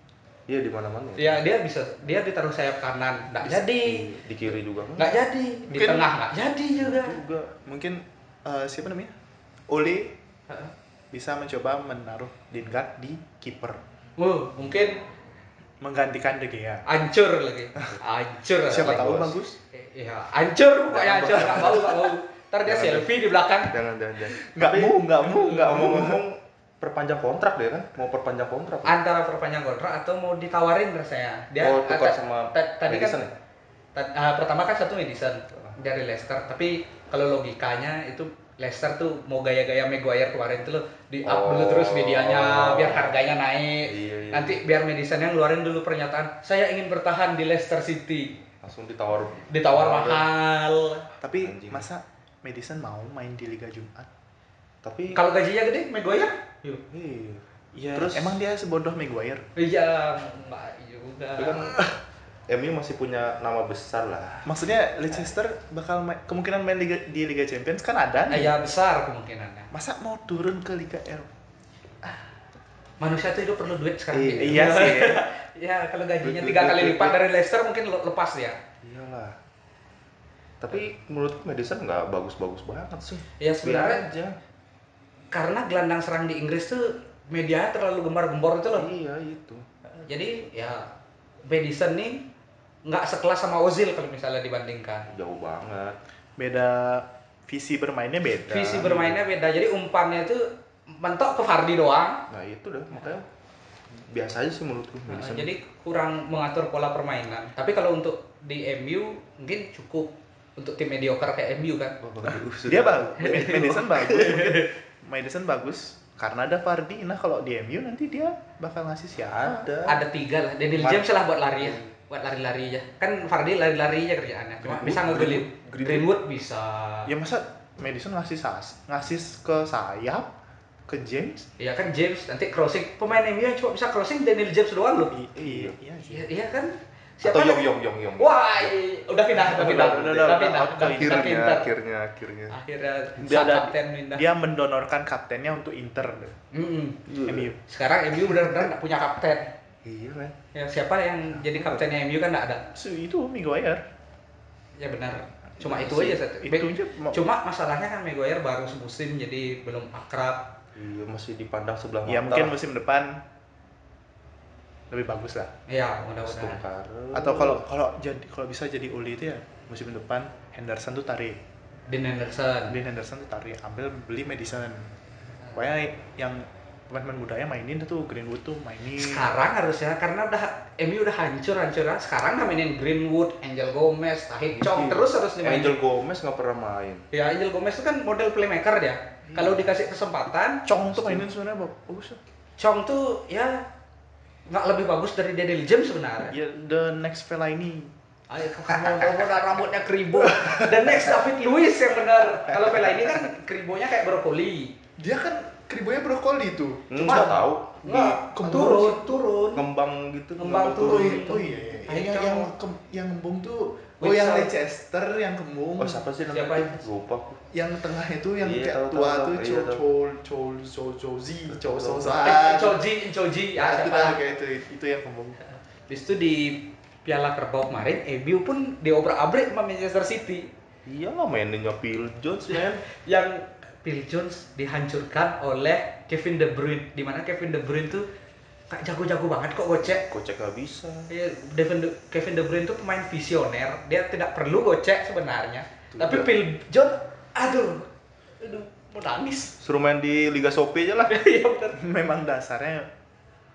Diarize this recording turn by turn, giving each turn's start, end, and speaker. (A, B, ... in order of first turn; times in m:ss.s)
0:00.5-0:01.4 A
0:01.2-0:04.1 B
0:03.5-0:05.2 A
0:05.0-0:07.2 B
0:05.7-0:06.1 C
0:06.8-0:07.5 A
0:07.5-0:09.2 C
0:09.7-0:10.2 C
0:11.1-0:13.8 C
0:14.2-0:15.0 B
0:15.8-0:16.8 C
0:16.9-0:19.1 B
0:18.7-0:19.4 A
0:18.7-0:19.6 C
0:19.7-0:23.8 B
0:20.9-0:22.1 A
0:22.6-0:23.1 A
0:23.7-0:29.0 A
0:24.5-0:26.2 C
0:28.8-0:33.2 B
0:31.6-0:33.3 A
0:34.0-0:48.4 B
0:41.3-0:43.2 A
0:43.9-0:44.6 A
0:48.6-0:50.3 A
0:49.5-0:51.1 B
0:51.2-0:54.1 C
0:51.4-0:51.9 A
0:54.8-0:55.2 A
0:55.1-0:56.8 B
0:56.9-0:58.4 A
0:57.8-0:59.4 C
0:59.6-1:01.8 B
1:01.4-1:01.9 A
1:02.5-1:04.5 A
1:04.4-1:08.6 C
1:08.3-1:09.7 B
1:09.7-1:11.3 C
1:13.0-1:18.6 B
1:14.1-1:15.0 A
1:14.4-1:15.3 C
1:16.2-1:17.2 A
1:18.8-1:19.4 A
1:20.6-1:24.4 A
1:23.4-1:24.1 B
1:25.3-1:28.9 B
1:28.8-1:29.6 A
1:30.1-1:30.9 B
1:31.4-1:32.2 B
1:32.9-1:35.1 B
1:35.1-1:36.0 A
1:36.4-1:39.1 C
1:38.4-1:42.2 B
1:38.8-1:39.1 A
1:42.3-1:43.3 A
1:43.9-1:45.5 A
1:45.1-1:52.0 B
1:52.0-1:54.3 A
1:52.6-1:59.7 C
1:53.2-1:54.7 B
1:59.3-2:00.0 A
1:59.9-2:07.1 B
2:00.8-2:01.9 A
2:04.6-2:06.1 A
2:07.1-2:10.3 C
2:10.9-2:11.5 C
2:11.6-2:15.2 B
2:15.1-2:16.3 C
2:15.4-2:15.8 A
2:16.1-2:21.7 B
2:17.2-2:18.7 A
2:19.4-2:22.6 A
2:19.4-2:21.4 C
2:22.5-2:24.3 B
2:23.2-2:26.4 C
2:26.5-2:27.0 B
2:27.1-2:27.5 A
2:27.2-2:27.6 C
2:27.7-2:29.5 B
2:29.8-2:30.4 A
2:30.5-2:32.6 B
2:32.7-2:33.8 C
2:34.8-2:40.5 B
2:35.7-2:37.2 C
2:35.8-2:36.0 A
2:40.8-2:42.6 A
2:42.1-2:43.2 C
2:44.9-2:45.5 C
2:45.7-2:46.6 B
2:46.2-2:47.6 A
2:47.1-2:51.4 C
2:51.9-2:52.8 B
2:52.7-2:54.9 C
2:55.5-2:59.3 C
2:59.0-3:05.8 B
3:04.6-3:07.1 A
3:07.1-3:10.6 B
3:10.7-3:12.2 C
3:10.9-3:11.2 A
3:12.6-3:13.7 B
3:14.5-3:16.4 B
3:16.3-3:17.9 C
3:18.3-3:24.8 B
3:18.8-3:19.1 C
3:20.4-3:21.0 C
3:25.0-3:29.0 C
3:26.9-3:28.2 A
3:27.0-3:29.7 B
3:29.5-3:31.3 A
3:30.4-3:32.5 B
3:30.8-3:36.0 C
3:34.0-3:34.5 B
3:35.8-3:37.5 A
3:36.3-3:36.8 B
3:37.5-3:42.8 C
3:38.4-3:39.8 A
3:41.5-3:42.4 A
3:42.2-3:44.2 B
3:43.6-3:45.4 C
3:45.9-3:50.5 B
3:50.9-3:52.8 A
3:52.5-3:58.1 B
3:58.7-4:00.1 B
3:59.8-4:01.1 A
4:01.1-4:07.9 B
4:05.9-4:06.3 A
4:08.4-4:09.6 B
4:09.6-4:11.1 A
4:11.1-4:11.8 B
4:11.8-4:12.9 C